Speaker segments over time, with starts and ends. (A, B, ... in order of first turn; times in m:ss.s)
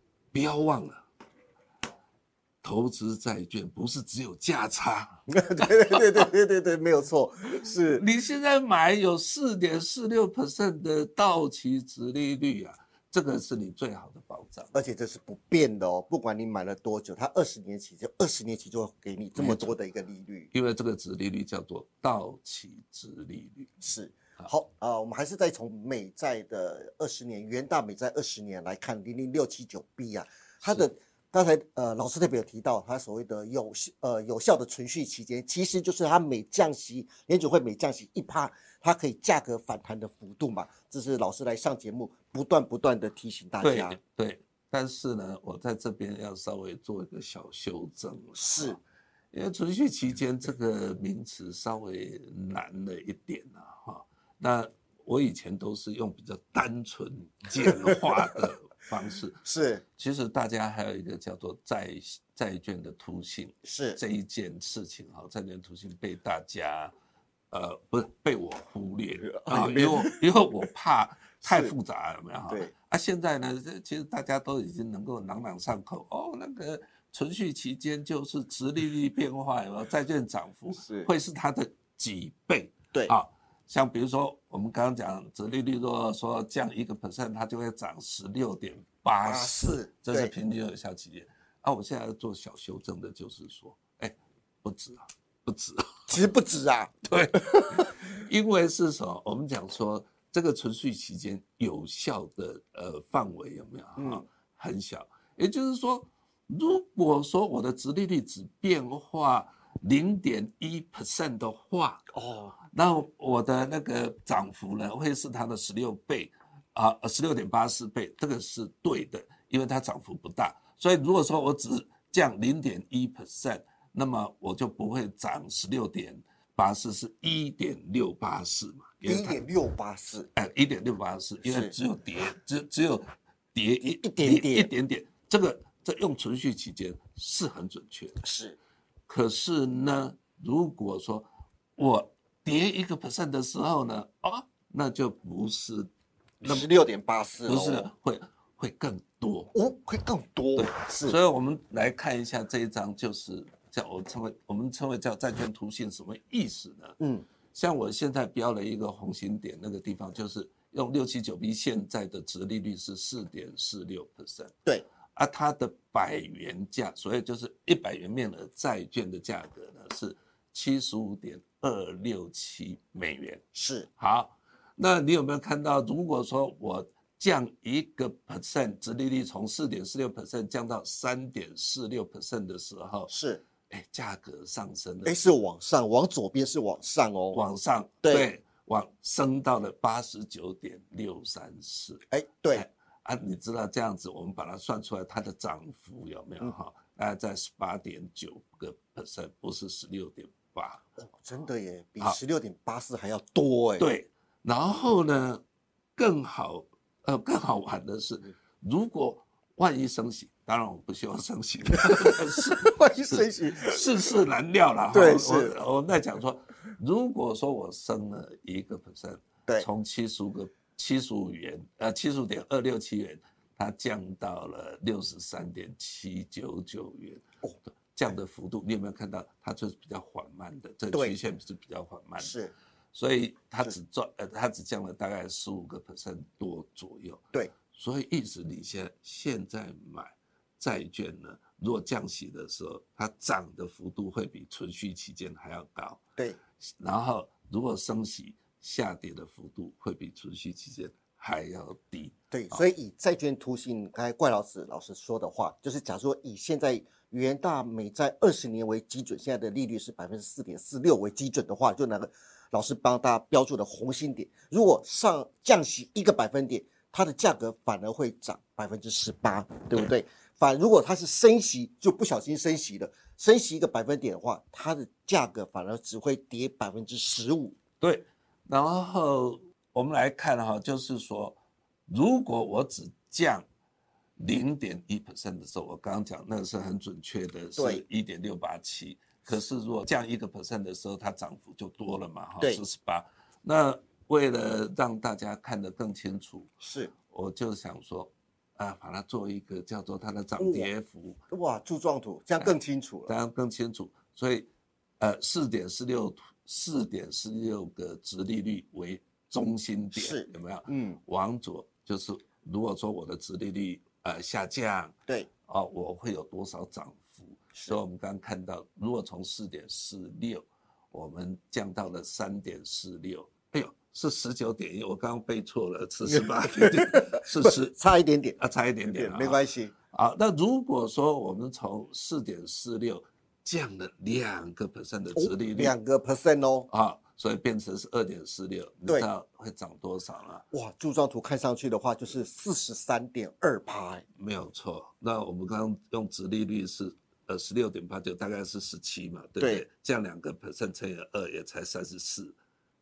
0:00.3-0:01.0 A
0:02.6-0:05.2 A
0:05.3-0:08.0 B
0:07.9-0:14.8 A
0:14.7-0:20.5 B
0:19.3-0:19.8 A
0:20.5-0:23.8 A
0:23.8-0:44.0 B
0:43.6-0:48.8 A
0:48.4-0:48.8 B
0:49.3-1:06.9 A
0:57.6-0:58.4 B
0:59.4-0:59.8 B
1:03.6-1:04.0 B
1:07.5-1:36.2 A
1:09.2-1:10.2 B
1:11.4-1:11.7 B
1:20.7-1:21.1 B
1:29.2-1:30.3 B
1:36.1-1:38.0 B
1:37.1-1:52.1 A
1:44.0-1:44.2 B
1:52.1-1:52.6 B
1:52.7-2:09.4 A
2:09.0-2:10.3 B
2:10.3-2:18.2 A
2:11.4-2:11.7 B
2:13.8-2:14.7 B
2:18.2-2:18.6 B
2:19.1-2:25.9 A
2:26.4-2:26.7 A
2:26.4-2:27.9 B
2:27.4-2:29.5 A
2:29.5-2:31.2 B
2:30.6-2:37.0 A
2:37.0-2:37.3 B
2:37.5-2:44.5 A
2:45.2-2:53.4 A
2:53.5-2:53.9 B
2:54.0-3:03.1 A
3:03.1-3:03.4 B
3:03.7-3:05.2 A
3:05.0-3:07.4 B
3:07.3-3:20.8 A
3:08.0-3:08.3 B
3:12.1-3:12.6 B
3:21.0-3:23.9 B
3:23.8-3:25.4 A
3:26.0-3:52.4 A
3:31.8-3:34.2 B
3:34.9-3:35.6 B
3:52.2-3:52.5 B
3:52.9-4:06.0 A
4:06.6-4:12.6 A
4:12.3-4:37.6 B
4:37.8-4:43.4 A
4:44.2-5:01.2 A
4:47.6-4:47.8 B
4:56.6-4:56.9 B
5:00.4-5:00.7 B
5:01.3-5:03.1 B
5:02.4-5:04.5 A
5:05.0-5:14.9 A
5:09.9-5:11.0 B
5:15.4-5:27.8 A
5:26.0-5:29.7 B
5:28.4-5:35.8 A
5:35.1-5:36.7 B
5:36.7-5:40.4 A
5:40.5-5:44.0 B
5:44.2-5:52.4 A
5:49.4-5:49.6 B